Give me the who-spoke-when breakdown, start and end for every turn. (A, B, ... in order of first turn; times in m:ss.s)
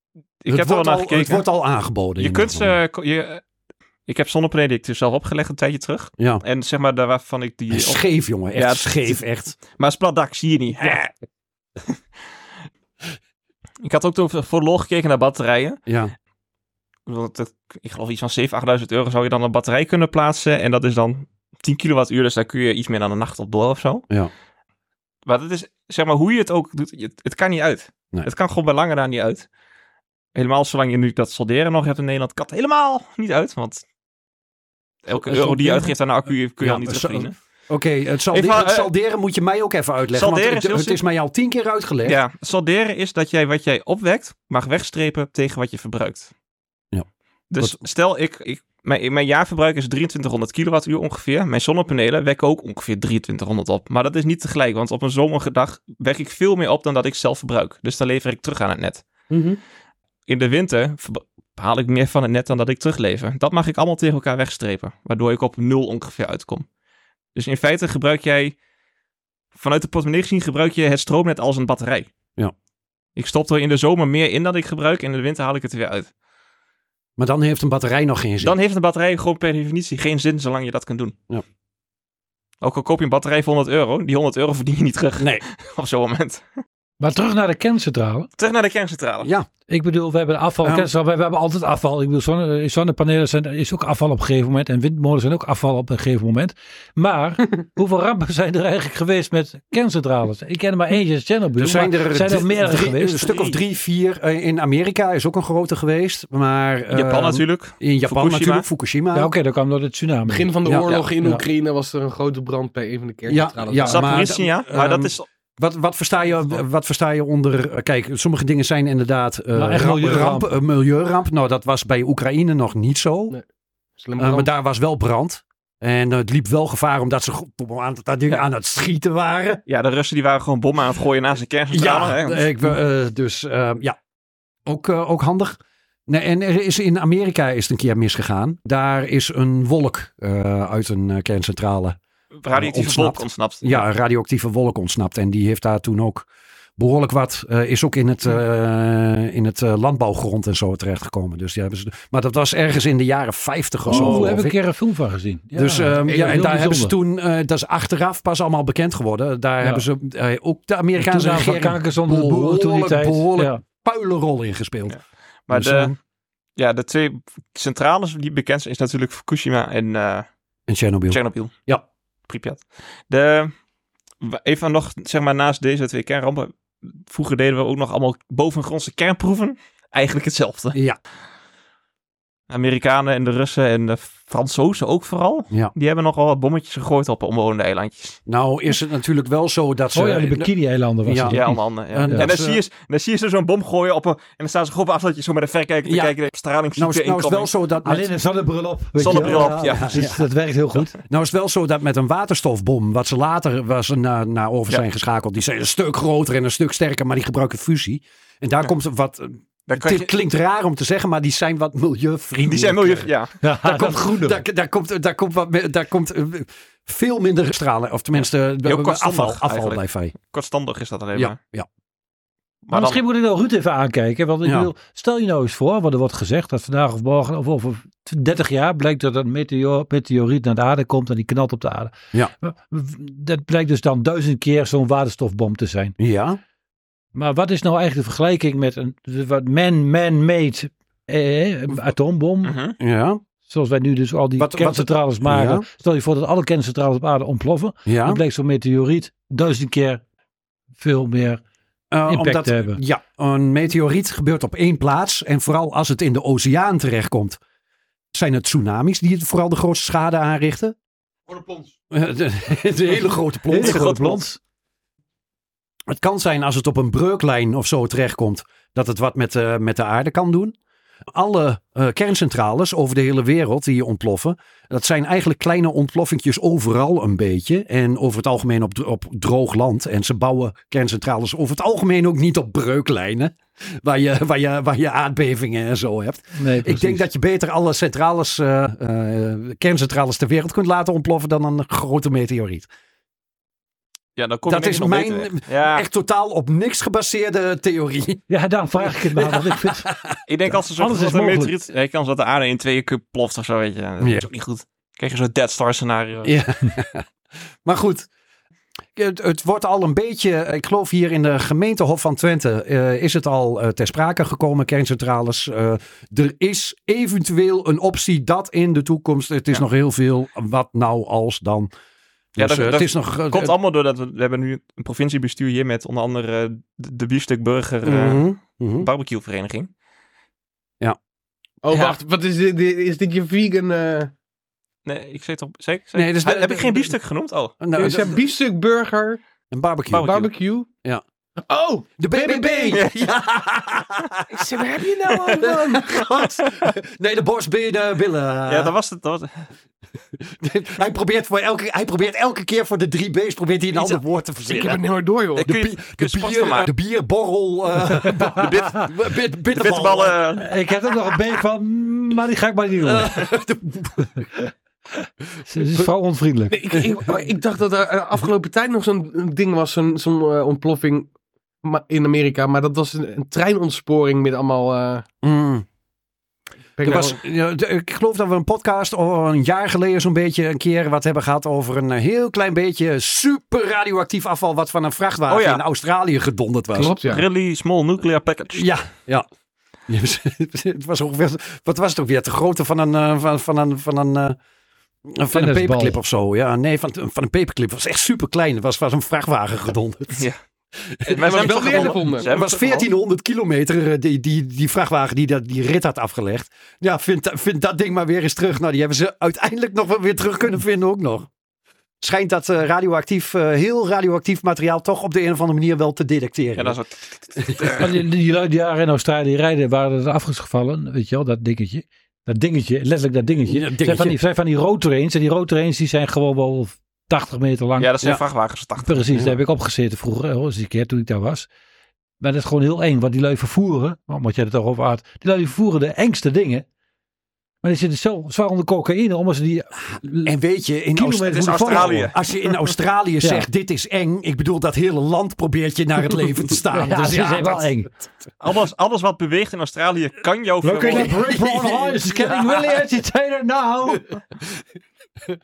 0:00.4-0:01.4 A
0:00.5-0:02.8 B
0:02.2-0:03.4 A
0:04.1-0:08.0 A
0:07.7-0:09.6 B
0:08.5-0:11.1 A
0:13.8-0:15.8 A
0:15.9-0:16.1 B
0:17.1-0:24.0 A
0:25.2-0:29.5 A
0:30.3-0:33.8 A
0:35.0-0:37.3 A
0:35.1-0:35.9 B
0:36.6-0:42.2 B
0:38.3-0:38.9 A
0:40.1-0:41.0 A
0:42.0-0:46.3 A
0:47.5-0:59.0 A
0:59.3-0:59.6 C
1:00.3-1:06.6 A
1:07.4-1:08.6 A
1:09.5-1:12.1 A
1:13.2-1:16.1 A
1:17.2-1:18.6 B
1:18.4-1:21.1 A
1:22.6-1:26.6 A
1:27.0-1:28.3 D
1:28.4-1:29.3 A
1:29.2-1:29.5 B
1:29.7-1:43.2 D
1:30.6-1:30.9 B
1:41.6-1:49.3 B
1:43.2-1:43.6 A
1:46.9-1:48.6 A
1:49.1-1:51.4 D
1:50.3-1:54.0 C
1:50.6-1:51.0 B
1:53.3-2:03.4 B
1:53.8-1:55.2 A
1:59.5-2:00.5 D
2:04.0-2:04.5 C
2:04.2-2:09.6 B
2:09.7-2:12.5 A
2:11.7-2:14.0 B
2:14.6-2:22.0 B
2:22.4-2:23.8 A
2:22.5-2:26.3 B
2:26.8-2:34.6 B
2:33.9-2:36.9 D
2:33.9-2:34.3 A
2:35.5-2:45.0 B
2:41.0-2:43.6 D
2:44.9-2:45.9 A
2:45.5-2:46.0 B
2:46.6-2:50.3 A
2:50.7-2:51.8 B
2:51.1-2:51.5 A
2:52.3-2:53.5 A
2:54.2-3:00.8 A
3:02.5-3:08.2 A
3:08.3-3:10.5 B
3:09.9-3:12.3 D
3:11.0-3:12.6 B
3:11.3-3:17.5 A
3:15.8-3:16.1 B
3:16.8-3:18.1 B
3:17.8-3:20.9 D
3:19.0-3:20.2 B
3:19.0-3:19.9 A
3:21.0-3:33.1 B
3:29.7-3:30.1 A
3:32.4-3:33.3 A
3:33.4-3:34.4 D
3:33.6-3:40.1 B
3:38.2-3:41.4 A
3:41.1-3:41.7 B
3:42.6-3:43.0 A
3:42.7-3:55.9 D
3:44.4-3:44.7 B
3:56.0-3:56.4 B
3:57.1-4:02.6 D
4:02.4-4:02.8 A
4:02.8-4:03.2 B
4:03.5-4:10.0 D
4:04.4-4:05.6 B
4:07.8-4:08.2 B
4:10.8-4:11.4 D
4:11.9-4:17.4 B
4:12.0-4:12.8 D
4:18.1-4:20.7 B
4:21.3-4:21.7 A
4:21.9-4:24.0 B
4:23.5-4:24.4 D
4:23.6-4:24.2 A
4:25.9-4:30.6 B
4:31.1-4:52.7 B
4:46.4-4:47.0 D
4:54.2-4:55.8 A
4:54.5-4:58.3 B
4:58.3-4:59.9 D
4:59.2-5:00.2 B
5:00.3-5:06.4 A
5:00.7-5:01.5 D
5:04.0-5:04.3 B
5:06.2-5:07.1 B
5:07.6-5:08.1 B
5:08.9-5:21.7 B
5:22.3-5:23.6 B
5:22.4-5:28.3 A
5:27.8-5:28.9 B
5:28.8-5:29.7 A
5:31.6-5:34.1 C
5:31.7-5:32.0 A
5:34.8-5:38.1 A
5:35.9-5:36.9 B
5:37.6-5:38.2 B
5:37.7-5:39.2 C
5:39.5-5:40.2 B
5:39.9-5:40.3 A
5:40.0-5:40.7 C
5:41.5-5:42.8 C
5:42.0-5:44.5 B
5:42.7-5:43.0 A
5:44.3-5:46.0 C
5:45.1-5:46.7 A
5:45.2-5:48.7 B
5:48.5-5:49.5 A
5:50.2-5:54.8 B
5:54.5-5:55.4 C
5:55.3-5:56.7 A
5:55.4-6:00.2 B
5:58.3-5:58.9 A
5:59.5-6:00.5 A
6:00.4-6:03.1 D
6:02.8-6:04.2 B
6:05.5-6:06.6 D
6:06.5-6:11.1 C
6:06.7-6:07.2 B
6:11.6-6:15.0 C
6:15.2-6:15.6 B
6:16.8-6:17.2 C
6:16.8-6:27.0 B
6:25.3-6:25.6 A
6:26.7-6:27.2 C
6:27.0-6:28.7 A
6:28.5-6:29.3 B
6:29.9-6:34.4 B
6:35.1-6:40.3 B
6:35.3-6:36.0 D
6:40.8-6:51.3 B
6:41.1-6:42.8 A
6:41.1-6:42.3 C
6:52.0-6:56.8 B
6:56.6-6:58.0 A
6:57.4-6:57.8 B
6:57.7-7:08.2 D
7:03.4-7:04.2 B
7:07.8-7:09.0 A
7:08.8-7:11.5 D
7:09.1-7:09.4 B
7:12.2-7:16.6 D
7:17.6-7:20.3 D
7:20.2-7:27.7 B
7:20.9-7:22.1 D
7:21.3-7:22.7 A
7:26.7-7:27.9 D
7:28.4-7:31.1 A
7:30.6-7:34.0 D
7:30.6-7:32.8 B